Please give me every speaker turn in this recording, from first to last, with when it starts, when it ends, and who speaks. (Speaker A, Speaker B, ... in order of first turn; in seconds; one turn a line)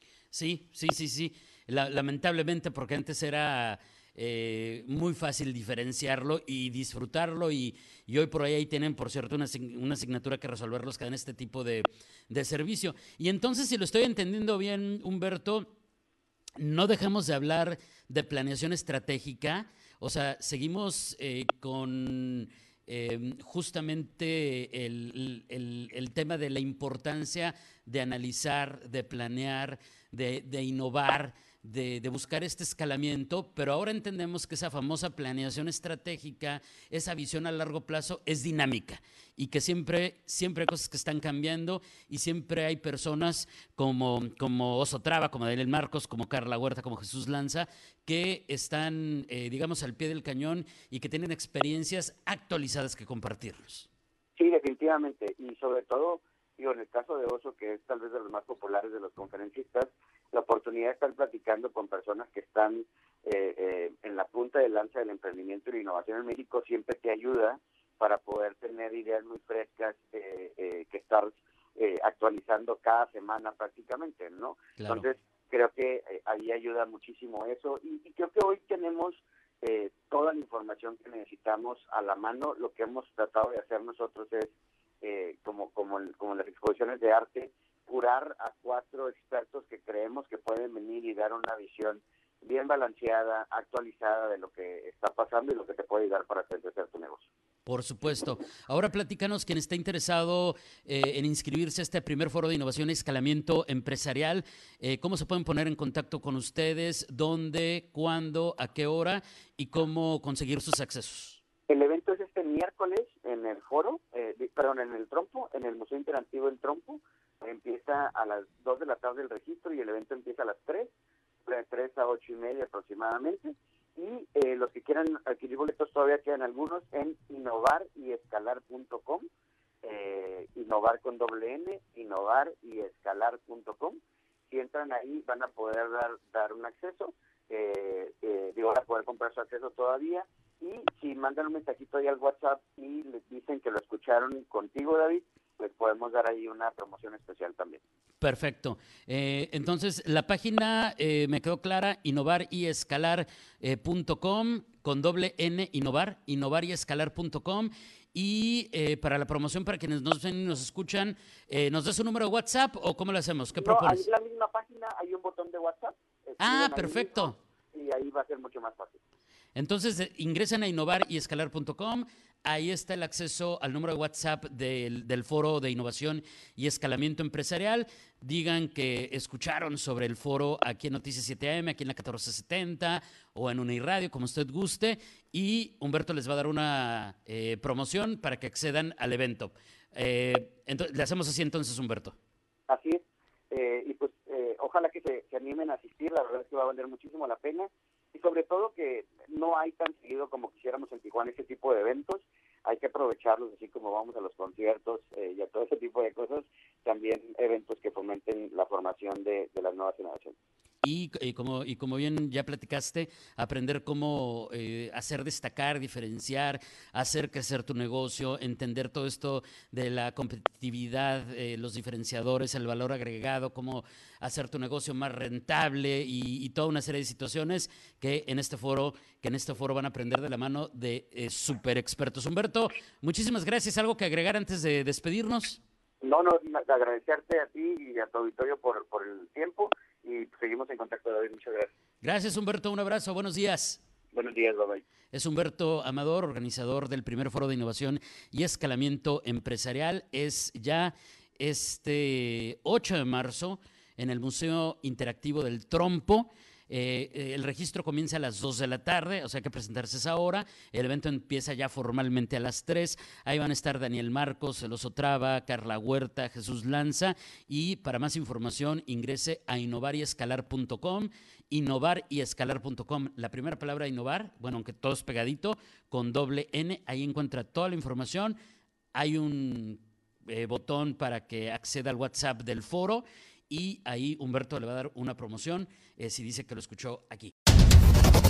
Speaker A: 0.3-15.7
Speaker A: 16.6-53.9
Speaker B: 54.4-97.3
Speaker A: 74.8-75.0
Speaker A: 97.7-111.4
Speaker B: 111.7-120.9
Speaker B: 121.5-129.2
Speaker B: 129.8-147.8
Speaker A: 148.2-164.0
Speaker B: 163.6-169.0
Speaker A: 166.4-167.4
Speaker A: 169.5-192.2
Speaker B: 192.7-210.3
Speaker A: 210.8-235.6
Speaker B: 236.0-241.7
Speaker A: 242.0-243.8
Speaker B: 244.1-244.8
Speaker A: 245.1-278.4
Speaker A: 278.9-287.3